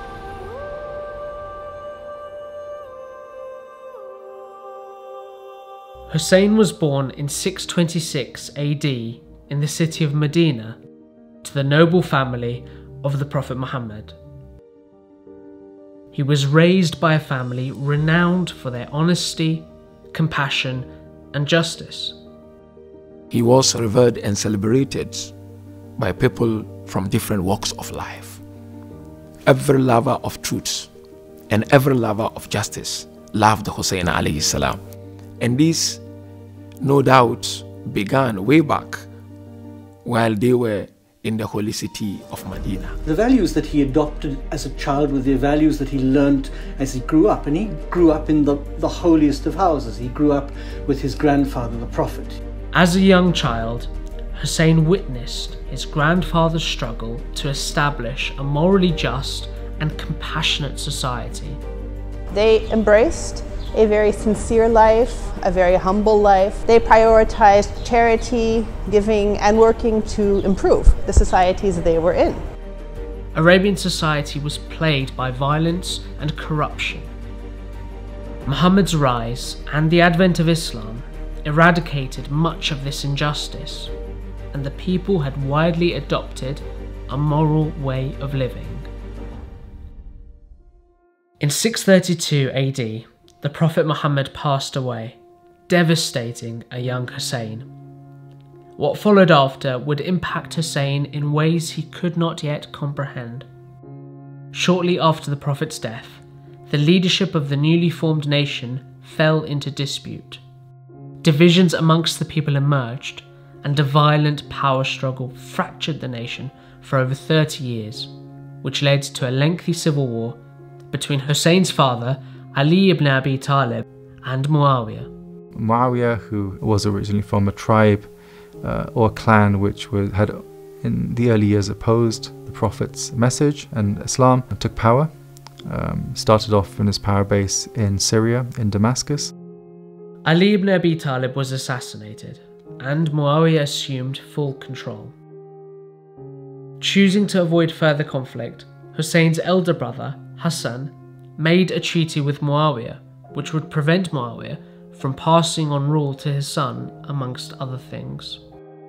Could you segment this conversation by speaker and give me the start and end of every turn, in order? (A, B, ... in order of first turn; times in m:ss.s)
0:06.1-0:10.8 A
0:11.4-0:14.2 A
0:16.1-0:22.2 A
0:23.3-0:25.3 B
0:26.0-0:28.4 B
0:29.4-0:30.9 B
0:31.5-0:34.8 B
0:35.4-0:36.0 B
0:36.8-0:39.1 B
0:40.0-0:43.0 B
0:43.0-0:52.4 C
0:52.7-1:01.6 A
1:02.3-1:12.4 D
1:13.3-1:17.1 A
1:18.4-1:23.9 A
1:24.5-1:28.9 A
1:31.4-1:37.7 A
1:38.8-1:43.4 A
1:44.5-1:50.4 A
1:51.2-2:00.4 A
2:00.9-2:05.1 A
2:05.5-2:15.1 E
2:15.6-2:19.3 E
2:20.2-2:25.1 A
2:26.8-2:38.4 A